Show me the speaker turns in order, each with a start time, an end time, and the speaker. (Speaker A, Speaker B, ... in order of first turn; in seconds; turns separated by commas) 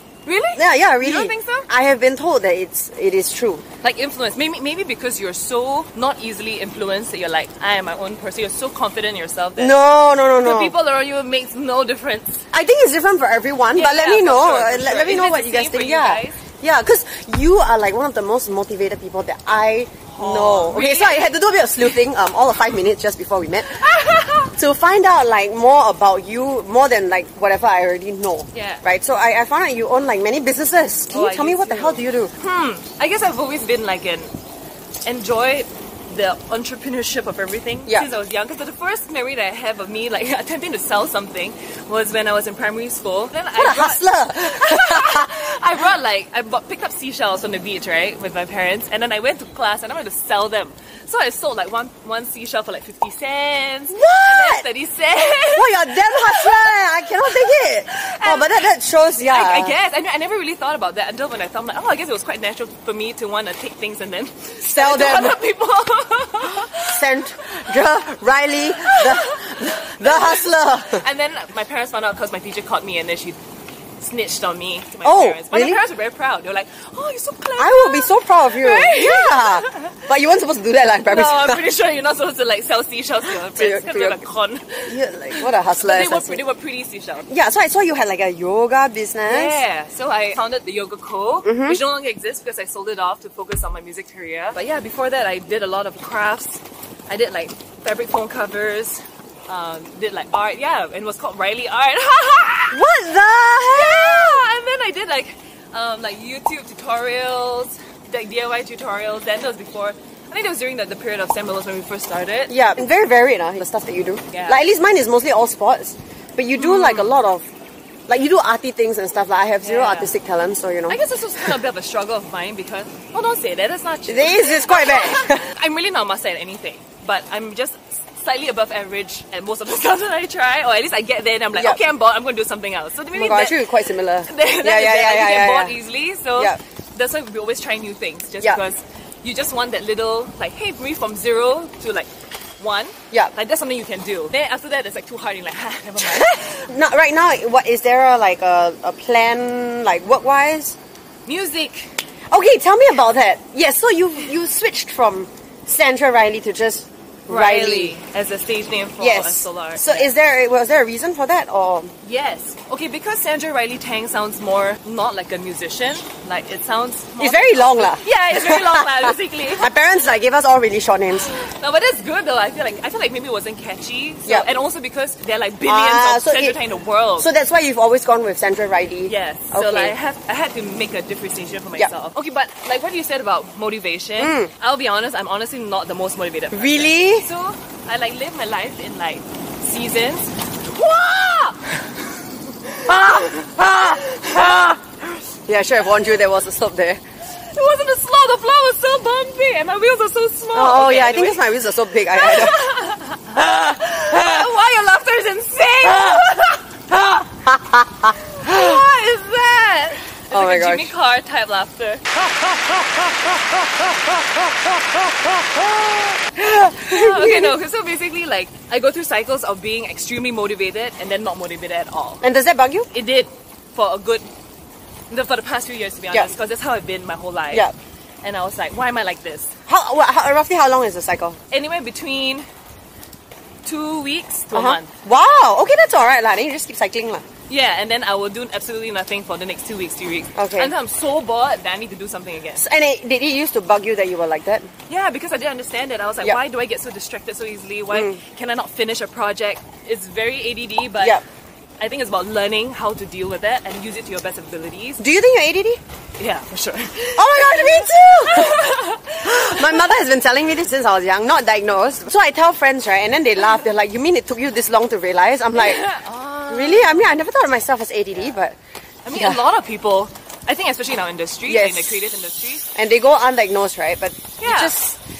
Speaker A: 0.2-1.7, Speaker B: 0.5-3.6, Speaker A: 3.8-9.8, Speaker B: 9.6-10.7, Speaker A: 10.4-12.4, Speaker B: 12.5-23.9, Speaker A: 13.7-16.4, Speaker A: 20.1-21.4, Speaker A: 23.7-24.5, Speaker B: 24.5-32.3, Speaker A: 28.5-28.8, Speaker A: 31.1-34.3, Speaker A: 35.0-58.6, Speaker B: 43.5-45.3, Speaker B: 53.9-54.6, Speaker B: 55.5-59.8, Speaker A: 59.3-67.1, Speaker B: 64.6-65.4, Speaker B: 66.8-71.0, Speaker A: 68.8-73.4, Speaker A: 74.0-79.9, Speaker B: 75.0-75.8, Speaker B: 77.6-81.6, Speaker A: 81.0-87.3, Speaker B: 83.5-84.2, Speaker B: 84.8-86.4, Speaker B: 87.3-89.6, Speaker A: 89.2-102.8, Speaker B: 91.4-91.8, Speaker B: 102.7-104.4, Speaker A: 103.6-112.5, Speaker B: 112.5-117.5, Speaker A: 114.3-114.6, Speaker A: 116.5-117.2, Speaker B: 118.1-121.0, Speaker A: 119.6-120.1, Speaker A: 120.9-133.7, Speaker B: 124.1-125.5, Speaker B: 133.1-135.8, Speaker A: 134.2-146.7, Speaker B: 146.0-150.8, Speaker A: 151.2-151.9, Speaker B: 152.3-157.9, Speaker A: 157.3-160.1, Speaker B: 159.0-161.9, Speaker A: 162.0-169.7, Speaker B: 167.2-171.4, Speaker A: 171.1-177.3, Speaker B: 175.6-176.6, Speaker B: 177.2-179.9, Speaker A: 179.1-194.8, Speaker B: 184.2-184.5, Speaker B: 186.5-187.2, Speaker B: 192.9-193.8, Speaker B: 195.5-197.0, Speaker A: 197.5-201.4, Speaker B: 200.5-202.6, Speaker A: 202.1-206.6, Speaker B: 207.4-208.1, Speaker A: 208.4-212.0, Speaker B: 210.3-210.9, Speaker B: 215.7-217.6, Speaker A: 216.7-222.2, Speaker B: 222.2-222.9, Speaker A: 222.9-224.2, Speaker A: 225.1-227.7, Speaker A: 228.2-229.5, Speaker B: 229.7-231.4, Speaker A: 231.5-232.4, Speaker A: 233.6-234.9, Speaker B: 234.5-237.2, Speaker A: 237.5-242.6, Speaker B: 240.3-240.7, Speaker B: 242.6-244.7, Speaker A: 244.9-251.2, Speaker B: 247.9-248.2, Speaker A: 251.8-255.0, Speaker B: 255.0-255.8, Speaker A: 256.2-260.0, Speaker B: 257.2-258.7, Speaker B: 259.2-265.9, Speaker A: 265.5-267.2, Speaker B: 266.5-268.5, Speaker A: 269.0-272.7, Speaker B: 269.1-269.4, Speaker B: 271.5-272.0, Speaker B: 272.7-275.0, Speaker A: 274.4-274.8